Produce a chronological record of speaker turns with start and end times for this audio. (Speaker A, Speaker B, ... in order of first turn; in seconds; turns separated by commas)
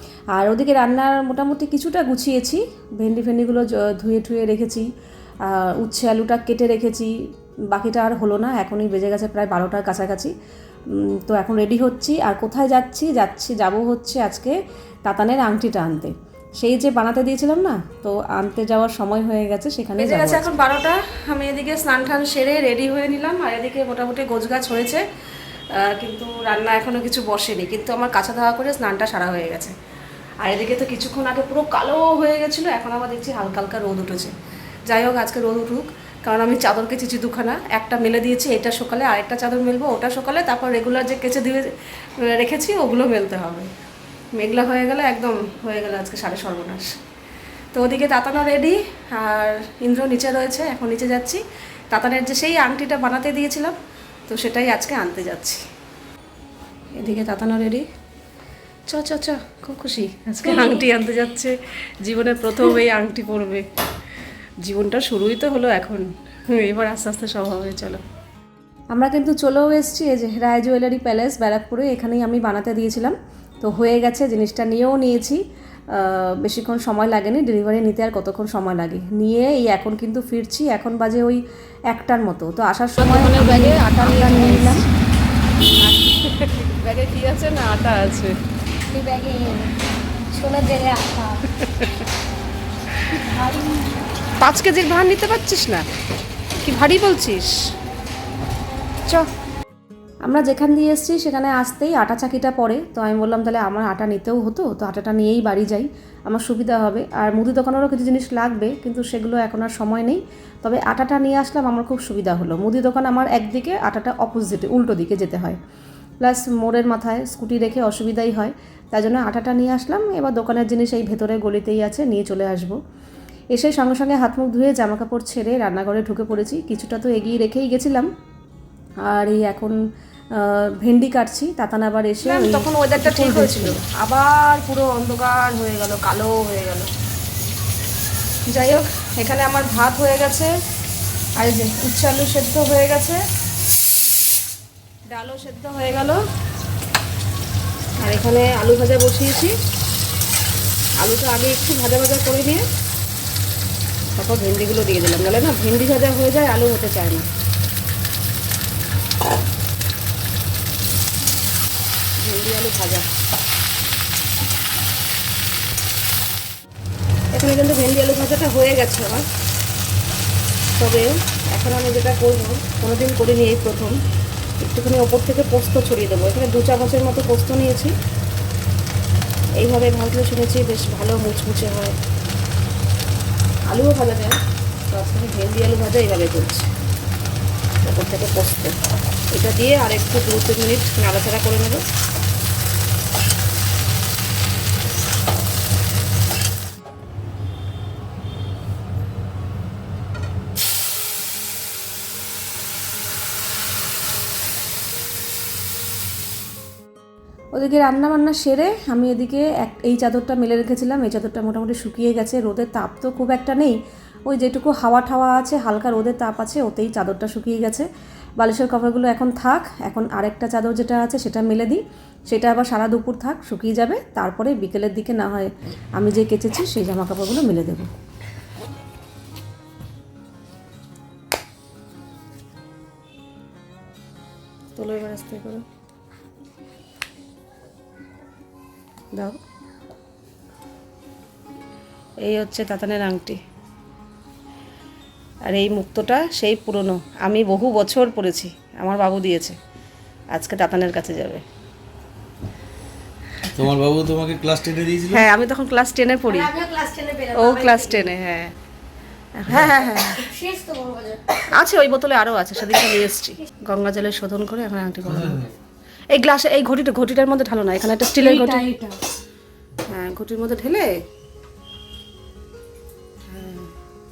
Speaker A: 0.3-4.9, Speaker A: 5.5-7.1, Speaker A: 7.7-10.3, Speaker A: 10.9-20.5, Speaker B: 20.0-25.0, Speaker B: 25.8-29.7, Speaker B: 30.4-34.3, Speaker B: 34.9-41.7, Speaker B: 42.3-43.7, Speaker B: 44.4-46.9, Speaker B: 47.7-51.4, Speaker A: 50.9-51.4, Speaker A: 51.9-53.7, Speaker B: 52.0-53.7, Speaker B: 54.3-55.5, Speaker A: 54.3-55.6, Speaker A: 57.0-57.8, Speaker A: 58.9-61.5, Speaker B: 60.4-61.5, Speaker A: 62.0-63.5, Speaker B: 62.1-63.6, Speaker B: 64.7-66.0, Speaker A: 65.6-66.0, Speaker B: 66.6-68.0, Speaker A: 66.7-67.3, Speaker A: 68.9-75.4, Speaker A: 75.9-81.4, Speaker A: 81.9-84.8, Speaker B: 83.0-84.8, Speaker B: 85.9-88.3, Speaker C: 88.9-89.7, Speaker C: 90.3-91.5, Speaker B: 91.6-92.0, Speaker C: 93.1-94.0, Speaker B: 94.4-95.8, Speaker B: 96.6-97.5, Speaker A: 100.2-115.6, Speaker A: 116.2-122.8, Speaker A: 123.5-128.1, Speaker A: 129.0-129.8, Speaker A: 130.3-133.8, Speaker B: 132.2-136.9, Speaker B: 138.5-140.5, Speaker B: 141.4-143.2, Speaker B: 145.1-146.2, Speaker B: 148.0-149.5, Speaker B: 151.0-152.6, Speaker B: 154.2-157.2, Speaker B: 162.3-163.0, Speaker B: 167.3-169.2, Speaker B: 170.8-173.9, Speaker B: 174.6-177.9, Speaker B: 179.6-181.9, Speaker B: 183.7-184.3, Speaker B: 184.9-186.7, Speaker B: 187.8-188.7, Speaker B: 189.3-191.9, Speaker A: 207.5-217.9, Speaker A: 218.4-227.9, Speaker B: 234.8-235.6, Speaker B: 242.2-243.3, Speaker B: 245.5-249.5, Speaker B: 250.3-251.4, Speaker D: 253.5-255.2, Speaker B: 255.1-256.4, Speaker C: 256.3-258.1, Speaker B: 257.3-258.5, Speaker D: 259.5-259.9, Speaker B: 259.5-260.2, Speaker C: 259.6-261.4, Speaker B: 261.5-265.3, Speaker A: 261.8-265.4, Speaker D: 265.1-265.5, Speaker B: 266.1-268.5, Speaker C: 268.2-269.0, Speaker A: 268.3-268.6, Speaker A: 269.9-270.8, Speaker B: 270.0-270.8, Speaker A: 273.3-273.6